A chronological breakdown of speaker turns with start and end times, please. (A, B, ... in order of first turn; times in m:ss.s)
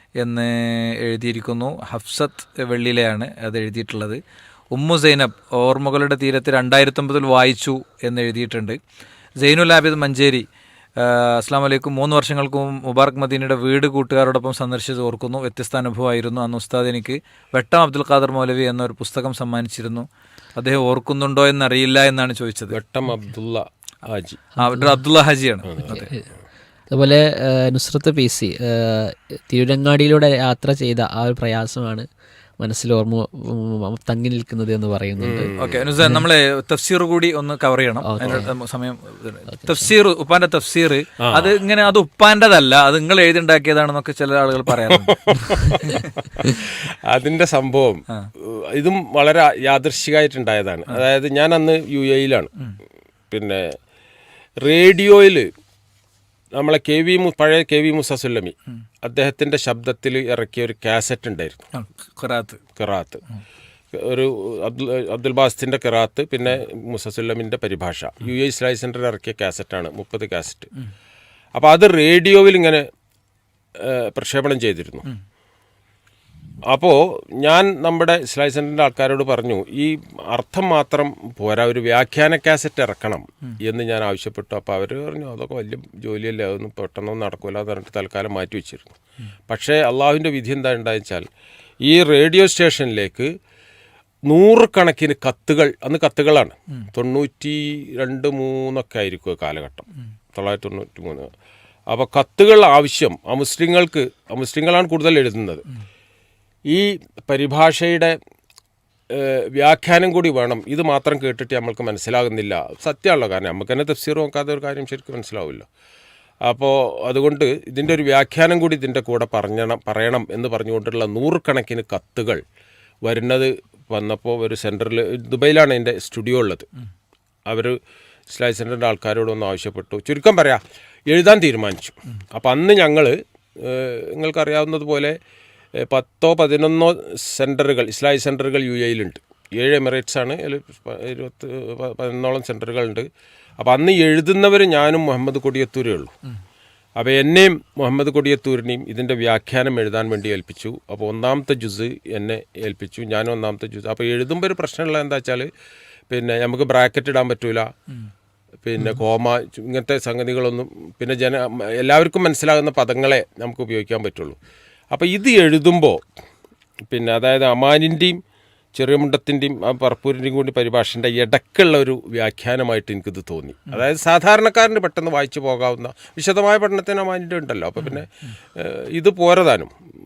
0:00.2-0:04.2 A
0:04.7-0:08.8 A
0:09.4-0:10.4 A
0:11.0-0:20.1 A
0:20.6-0:22.8 A
0:22.7-0:24.4 B
0:24.6-0:26.1 A
0:24.6-0:25.0 C
0:25.7-0:26.1 B
0:25.9-0:26.3 C
0:26.9-0:32.1 C
0:32.6-0:36.2 C
0:35.2-0:35.9 B
0:35.6-0:46.1 A
0:38.0-0:38.5 C
0:39.5-0:39.9 C
0:41.2-0:41.5 B
0:44.9-0:52.5 B
0:53.3-0:53.8 B
0:54.6-0:55.5 B
0:56.6-1:01.7 B
1:01.7-1:02.6 A
1:02.8-1:03.2 B
1:03.9-1:10.7 B
1:11.6-1:12.8 B
1:13.8-1:15.1 B
1:16.7-1:28.9 B
1:29.5-1:31.2 B
1:31.8-1:33.3 B
1:34.3-1:41.3 B
1:41.9-1:45.6 B
1:46.7-1:48.2 B
1:49.1-1:55.7 B
1:56.4-2:02.4 B
2:03.0-2:06.7 B
2:07.5-2:07.8 B
2:08.3-2:15.2 B
2:15.8-2:23.1 B
2:23.6-2:26.2 B
2:27.0-2:35.5 B
2:36.1-2:37.7 B
2:38.6-2:44.4 B
2:44.9-2:46.1 B
2:46.9-2:48.2 B
2:48.8-2:59.7 B